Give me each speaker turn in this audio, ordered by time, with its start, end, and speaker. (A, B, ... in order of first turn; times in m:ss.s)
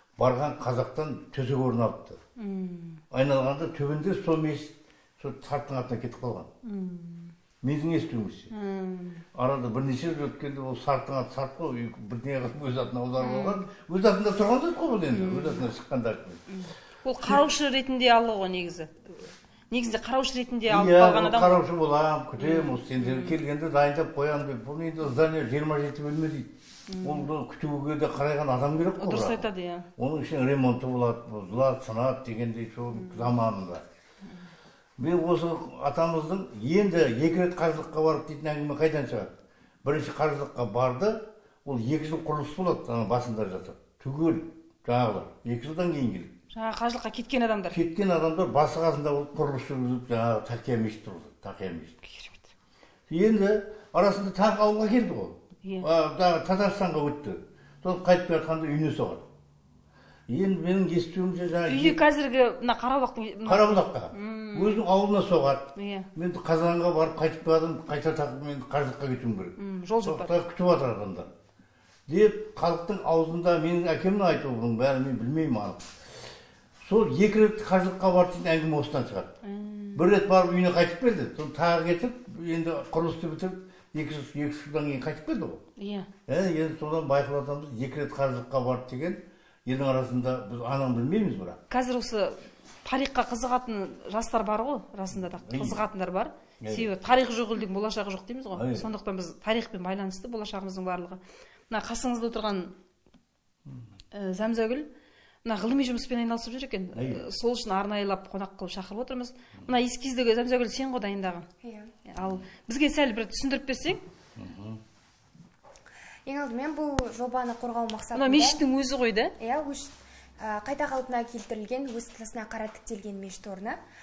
0:00.2-0:02.2 A
0:02.4-0:03.0 B
0:03.1-0:06.5 A
0:06.6-0:07.3 B
0:07.6-0:08.5 A
0:08.5-0:09.2 B
0:09.3-0:16.5 A
0:13.2-0:13.6 B
0:15.1-0:15.6 B
0:16.5-0:21.6 B
0:20.7-0:29.4 A
0:22.4-0:23.4 B
0:26.9-0:27.3 B
0:29.0-0:29.9 B
0:30.0-0:33.8 A
0:32.9-0:33.3 B
0:35.0-0:39.3 A
0:39.8-0:46.3 A
0:46.5-0:47.8 B
0:47.7-0:52.0 A
0:52.0-0:52.5 B
0:53.1-0:59.3 A
0:55.6-0:55.9 B
1:00.3-1:02.0 A
1:01.7-1:04.8 B
1:03.4-1:11.3 A
1:05.8-1:06.1 B
1:09.6-1:10.3 B
1:12.1-1:16.3 A
1:16.8-1:19.3 A
1:19.4-1:20.0 B
1:19.9-1:25.6 A
1:25.8-1:26.1 B
1:26.3-1:31.6 A
1:31.7-1:42.7 B
1:35.1-1:35.8 A
1:36.6-1:36.9 A
1:38.6-1:38.8 A
1:44.1-1:44.9 B
1:45.4-1:51.5 B
1:46.9-1:47.2 A
1:51.6-1:51.9 C
1:52.1-1:54.0 B
1:54.4-1:54.8 A
1:56.3-1:58.6 C
1:58.2-1:59.3 B
1:59.4-2:03.8 C